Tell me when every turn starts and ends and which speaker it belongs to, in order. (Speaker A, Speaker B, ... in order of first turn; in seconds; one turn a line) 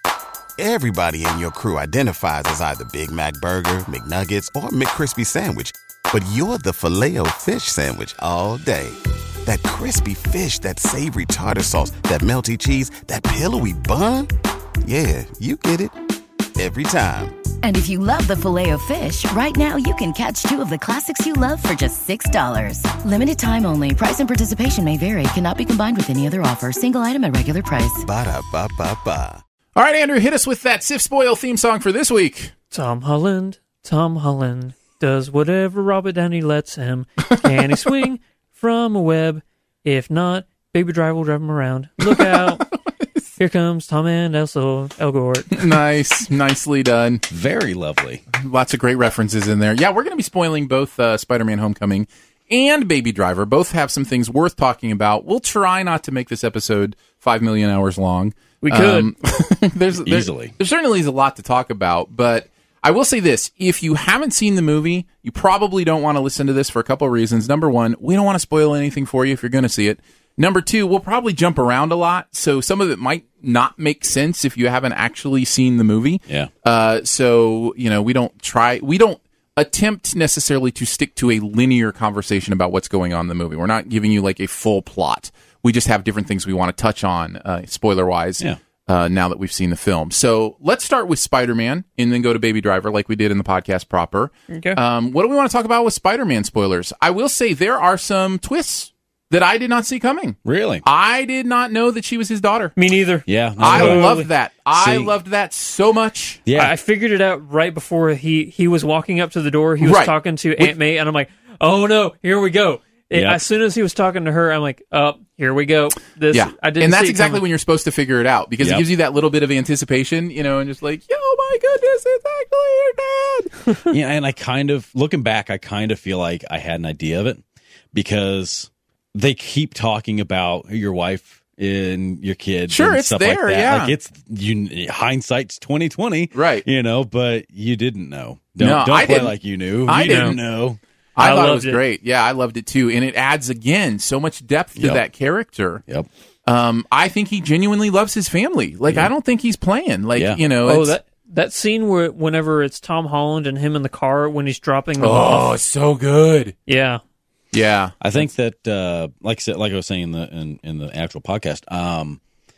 Speaker A: 0.6-14.3
Speaker A: 14.8-15.9
Speaker A: 16.6-17.4
Speaker B: 17.6-28.0
Speaker A: 28.0-29.4
Speaker C: 29.8-32.5
Speaker D: 32.7-42.8
Speaker C: 42.1-42.4
Speaker D: 43.4-45.7
Speaker C: 45.5-47.2
Speaker E: 47.3-48.2
Speaker C: 48.3-102.7
Speaker D: 58.6-59.1
Speaker E: 60.0-60.5
Speaker D: 94.5-94.8
Speaker E: 100.4-100.8
Speaker D: 102.8-104.3
Speaker E: 103.2-104.1
Speaker C: 103.6-106.4
Speaker E: 104.7-105.1
Speaker E: 106.5-106.8
Speaker D: 106.5-117.4
Speaker C: 109.8-110.7
Speaker E: 113.1-113.4
Speaker C: 116.3-123.7
Speaker E: 118.6-118.8
Speaker E: 123.9-127.4
Speaker E: 127.9-140.8
Speaker C: 132.7-133.9
Speaker C: 136.3-136.6
Speaker C: 138.6-139.3
Speaker C: 139.9-140.4
Speaker D: 140.0-140.4
Speaker C: 141.2-145.8
Speaker D: 141.2-141.8
Speaker E: 144.8-145.0
Speaker C: 146.4-150.9
Speaker E: 150.1-150.4
Speaker D: 150.6-155.6
Speaker C: 155.0-156.5
Speaker D: 156.7-157.0
Speaker C: 157.5-157.9
Speaker E: 158.0-162.2